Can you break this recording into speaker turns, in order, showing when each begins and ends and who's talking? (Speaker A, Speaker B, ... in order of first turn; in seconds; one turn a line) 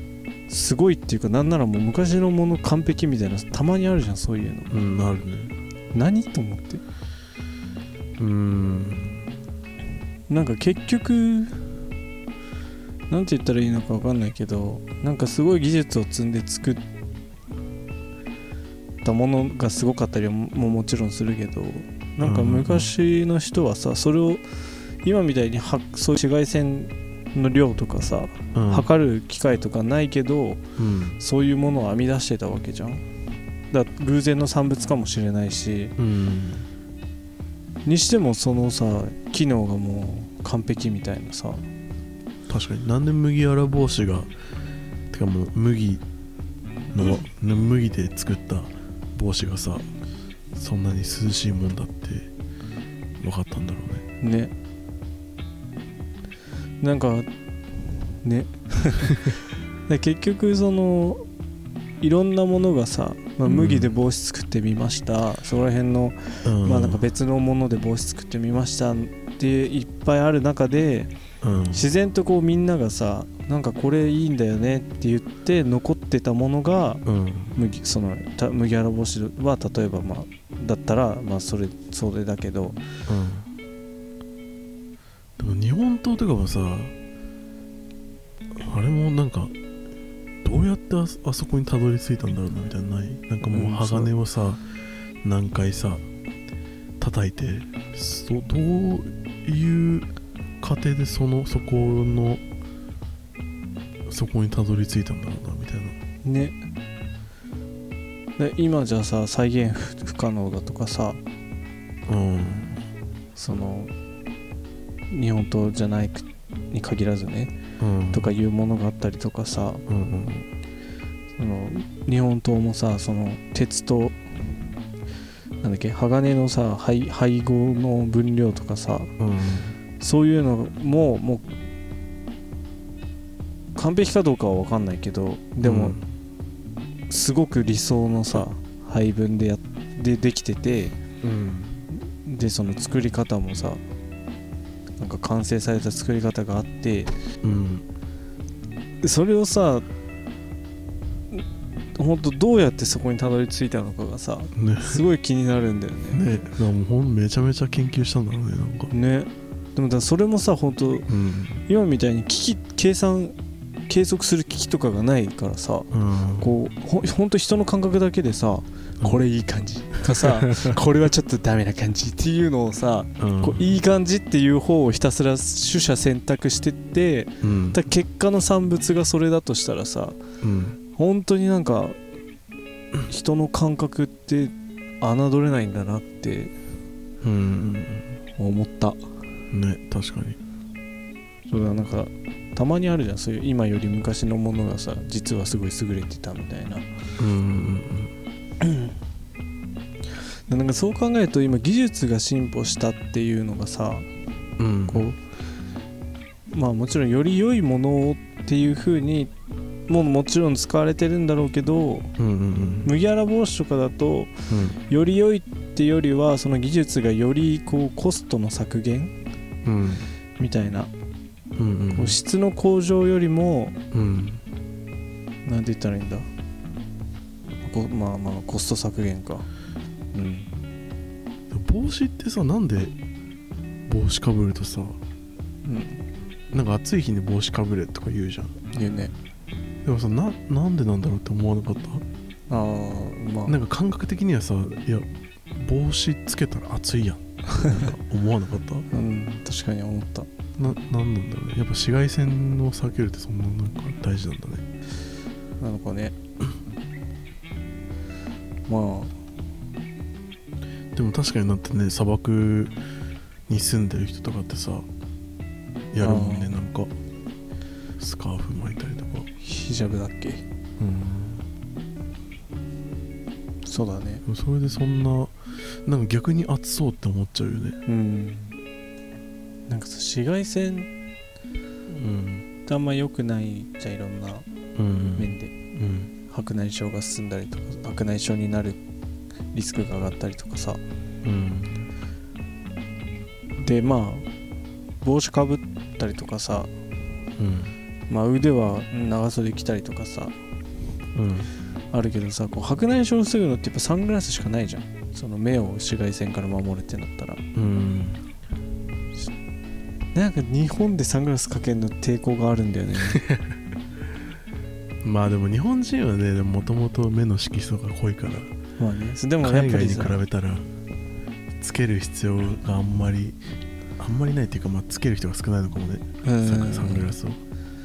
Speaker A: 0.5-4.7
Speaker B: 4.7-5.5
Speaker A: 5.9-6.8
Speaker B: 8.2-9.3
Speaker A: 10.3-11.7
Speaker A: 13.1-16.8
Speaker A: 19.0-24.4
Speaker B: 22.2-22.9
Speaker A: 25.0-30.6
Speaker B: 28.5-28.9
Speaker B: 30.8-31.2
Speaker A: 31.2-33.0
Speaker A: 33.7-35.9
Speaker B: 36.0-36.7
Speaker A: 37.8-41.6
Speaker B: 42.5-44.3
Speaker B: 45.1-46.0
Speaker B: 46.9-49.9
Speaker B: 50.5-52.3
Speaker B: 53.2-54.0
Speaker A: 54.2-54.5
Speaker A: 56.8-59.3
Speaker A: 59.9-61.2
Speaker A: 62.0-71.1
Speaker B: 63.5-63.9
Speaker B: 66.4-67.0
Speaker B: 71.4-71.9
Speaker A: 71.7-77.0
Speaker B: 77.0-77.5
Speaker A: 77.5-82.8
Speaker B: 83.1-83.5
Speaker B: 85.4-86.9
Speaker B: 88.5-89.5
Speaker B: 90.4-94.6
Speaker A: 93.4-94.1
Speaker B: 95.2-96.0
Speaker B: 97.0-100.1
Speaker B: 100.6-102.4
Speaker B: 104.0-105.9
Speaker A: 106.2-106.6
Speaker A: 108.4-111.2
Speaker B: 112.1-112.8
Speaker A: 113.3-113.9
Speaker A: 115.1-117.5
Speaker B: 117.8-118.3
Speaker A: 118.1-119.8
Speaker B: 119.9-120.5
Speaker A: 121.4-124.5
Speaker A: 125.6-129.1
Speaker B: 129.2-129.7
Speaker A: 130.0-131.4
Speaker A: 133.8-136.0
Speaker B: 135.6-136.0
Speaker A: 137.1-140.9
Speaker B: 141.2-141.8
Speaker A: 141.9-143.8
Speaker A: 145.0-147.1
Speaker B: 147.4-147.8
Speaker A: 149.0-149.9
Speaker A: 151.9-156.2
Speaker B: 154.5-155.0
Speaker B: 156.1-158.9
Speaker A: 158.9-161.1
Speaker B: 161.1-161.6
Speaker A: 161.7-163.3
Speaker A: 163.9-180.2
Speaker B: 165.9-166.5
Speaker B: 170.2-170.7
Speaker B: 173.2-173.8
Speaker B: 177.4-177.8
Speaker B: 180.4-180.8
Speaker A: 180.9-182.0
Speaker A: 183.1-186.5
Speaker B: 187.2-188.1
Speaker A: 188.4-189.0
Speaker B: 189.5-190.4
Speaker A: 191.5-196.9
Speaker B: 197.2-198.1
Speaker A: 198.6-198.9
Speaker A: 200.5-204.1
Speaker B: 204.6-205.1
Speaker A: 204.9-205.2
Speaker A: 206.5-209.3
Speaker A: 209.9-212.1
Speaker B: 212.2-212.9
Speaker A: 212.8-214.3
Speaker B: 214.5-214.8
Speaker A: 214.9-219.1
Speaker B: 219.6-220.1
Speaker A: 220.4-220.9
Speaker B: 221.6-222.2
Speaker A: 221.9-223.8
Speaker B: 223.9-224.4
Speaker A: 225.4-226.3
Speaker A: 227.6-229.5
Speaker A: 230.1-230.5
Speaker B: 231.5-232.9
Speaker B: 233.9-235.0
Speaker A: 235.6-236.0
Speaker B: 236.5-238.5
Speaker A: 238.7-239.1
Speaker B: 239.8-242.0
Speaker A: 242.5-243.6
Speaker B: 243.4-248.9
Speaker A: 248.9-250.3
Speaker B: 250.6-254.6
Speaker A: 255.6-256.1
Speaker A: 258.7-259.1
Speaker B: 260.9-262.7
Speaker B: 263.5-264.9
Speaker B: 265.9-266.9
Speaker A: 266.0-266.6
Speaker B: 268.0-269.3
Speaker A: 269.4-270.4
Speaker B: 270.8-271.4
Speaker A: 273.6-274.2
Speaker B: 274.2-277.8
Speaker A: 277.9-278.5
Speaker A: 279.7-280.9
Speaker B: 281.9-282.4
Speaker A: 282.6-284.4
Speaker B: 284.8-286.1
Speaker A: 285.1-285.5
Speaker A: 286.3-288.8
Speaker A: 289.5-290.8
Speaker B: 291.2-291.9
Speaker A: 293.6-294.3
Speaker A: 295.0-296.7
Speaker B: 297.4-297.7
Speaker A: 298.1-300.3
Speaker B: 301.1-301.5
Speaker A: 301.9-307.4
Speaker B: 307.5-308.2
Speaker A: 310.1-313.2
Speaker B: 313.1-313.4
Speaker B: 315.0-318.5
Speaker A: 318.8-320.2
Speaker B: 319.4-320.7
Speaker B: 321.5-323.4
Speaker B: 324.0-327.4
Speaker A: 326.2-327.1